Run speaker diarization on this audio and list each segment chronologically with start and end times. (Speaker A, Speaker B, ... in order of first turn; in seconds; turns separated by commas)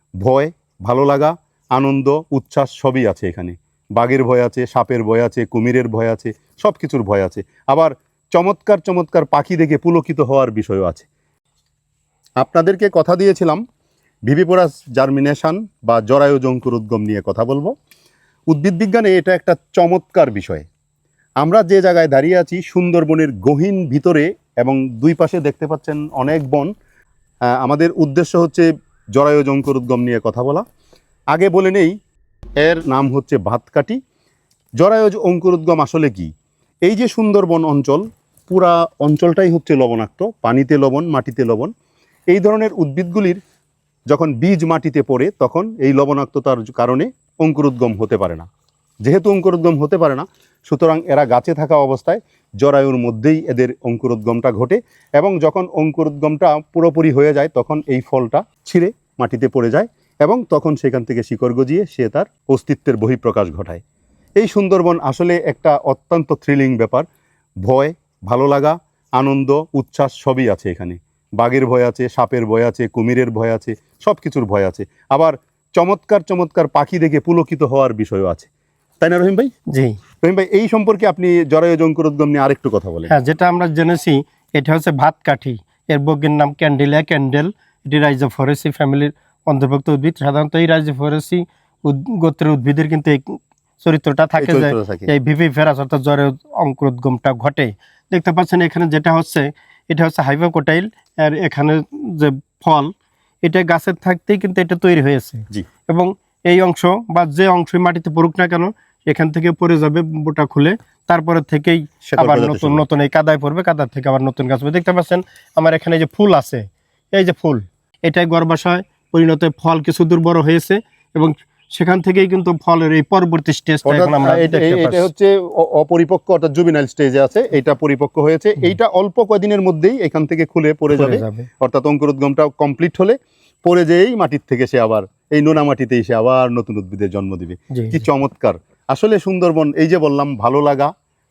Speaker A: 0.2-11.1, Speaker A: 12.4-13.6, Speaker A: 14.3-17.7, Speaker A: 18.5-20.7, Speaker A: 21.4-26.7, Speaker A: 27.5-30.6, Speaker A: 31.3-31.9, Speaker A: 32.6-34.0, Speaker A: 34.8-36.3, Speaker A: 36.9-41.7, Speaker A: 42.3-43.4, Speaker A: 44.1-48.5, Speaker A: 49.0-63.8, Speaker A: 64.4-67.0, Speaker A: 67.6-78.5, Speaker A: 79.0-79.5, Speaker B: 79.7-80.0, Speaker A: 80.2-83.1, Speaker B: 83.1-125.1, Speaker A: 94.4-95.1, Speaker A: 112.0-112.8, Speaker A: 123.8-140.9, Speaker B: 130.9-131.5, Speaker B: 137.7-138.0